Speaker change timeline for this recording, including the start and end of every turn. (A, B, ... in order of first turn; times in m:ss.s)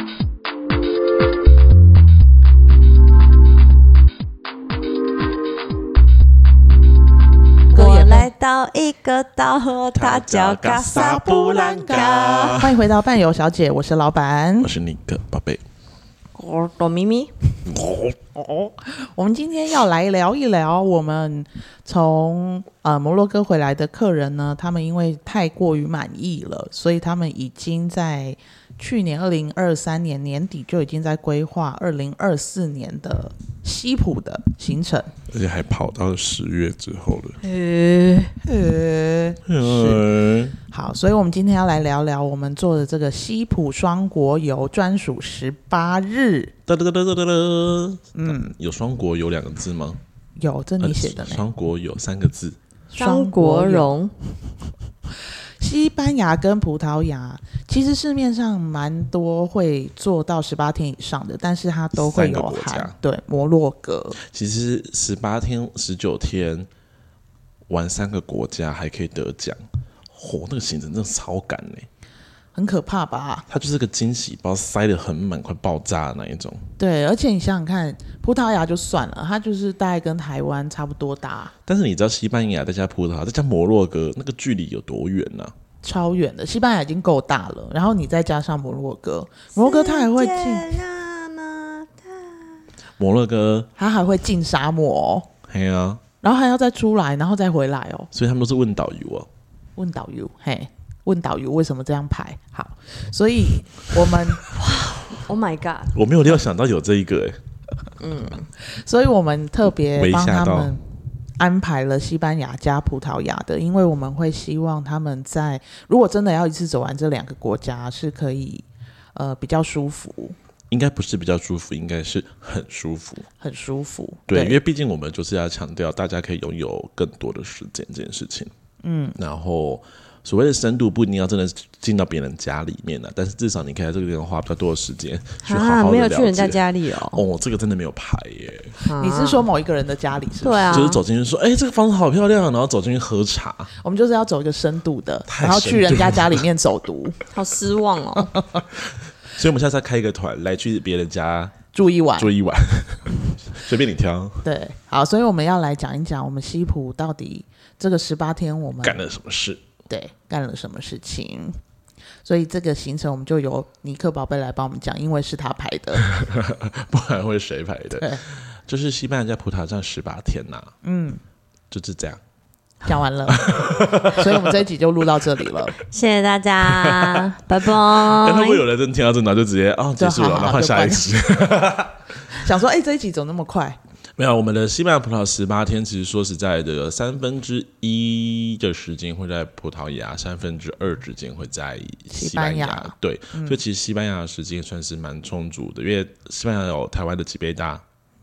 0:07.7-0:08.3 A
0:07.7-0:12.6 B
0:09.9-0:12.8 C
0:11.4-0:11.9 A
0:12.5-0:14.7 A
0:14.6-0:15.6 C
0:16.3-0:17.6 B
0:17.6-0:18.2 C
0:18.3-0:35.1 A
0:35.3-0:37.4 C
0:37.4-0:38.4 B
0:38.4-0:40.0 A
0:39.4-0:40.6 C
0:40.7-0:46.5 A
0:46.7-0:50.0 C
0:48.2-0:48.5 A
0:50.4-0:51.5 A
0:50.8-0:52.6 C
0:52.9-0:53.9 A
0:53.0-0:54.1 B
0:55.6-1:04.2 A
1:01.9-1:03.0 C
1:04.2-1:06.7 C
1:07.7-1:09.6 C
1:10.1-1:11.9 C
1:12.5-1:13.4 A
1:13.5-1:16.7 C
1:16.8-1:21.5 A
1:21.6-1:25.5 C
1:25.8-1:30.8 A
1:29.6-1:32.6 B
1:33.0-1:33.7 C
1:33.8-1:35.3 A
1:35.5-1:36.0 C
1:36.2-1:38.1 A
1:38.1-1:39.3 C
1:39.8-1:44.4 A
1:44.5-1:46.0 B
1:45.9-1:47.4 C
1:48.0-1:48.5 B
1:48.6-1:50.8 A
1:50.0-1:50.8 C
1:51.4-2:00.4 A
2:00.7-2:03.3 C
2:03.4-2:04.6 A
2:04.3-2:08.5 C
2:08.8-2:09.2 A
2:09.2-2:18.8 C
2:15.4-2:17.2 B
2:18.8-2:19.4 B
2:19.0-2:21.0 A
2:20.4-2:21.0 B
2:20.7-2:23.7 C
2:23.8-2:27.2 A
2:25.3-2:26.4 C
2:27.3-2:28.4 B
2:28.7-2:31.6 C
2:31.7-2:32.3 A
2:32.2-2:34.4 C
2:34.4-2:39.0 A
2:38.8-2:39.6 C
2:39.9-2:41.6 A
2:42.2-2:46.0 A
2:46.0-2:50.7 C
2:50.8-2:51.2 A
2:51.7-2:52.2 C
2:52.8-2:55.8 A
2:53.3-2:54.6 C
2:55.8-2:58.6 B
2:56.6-3:02.0 C
3:00.0-3:01.1 A
3:02.3-3:03.8 A
3:04.2-3:17.8 C
3:12.1-3:13.6 A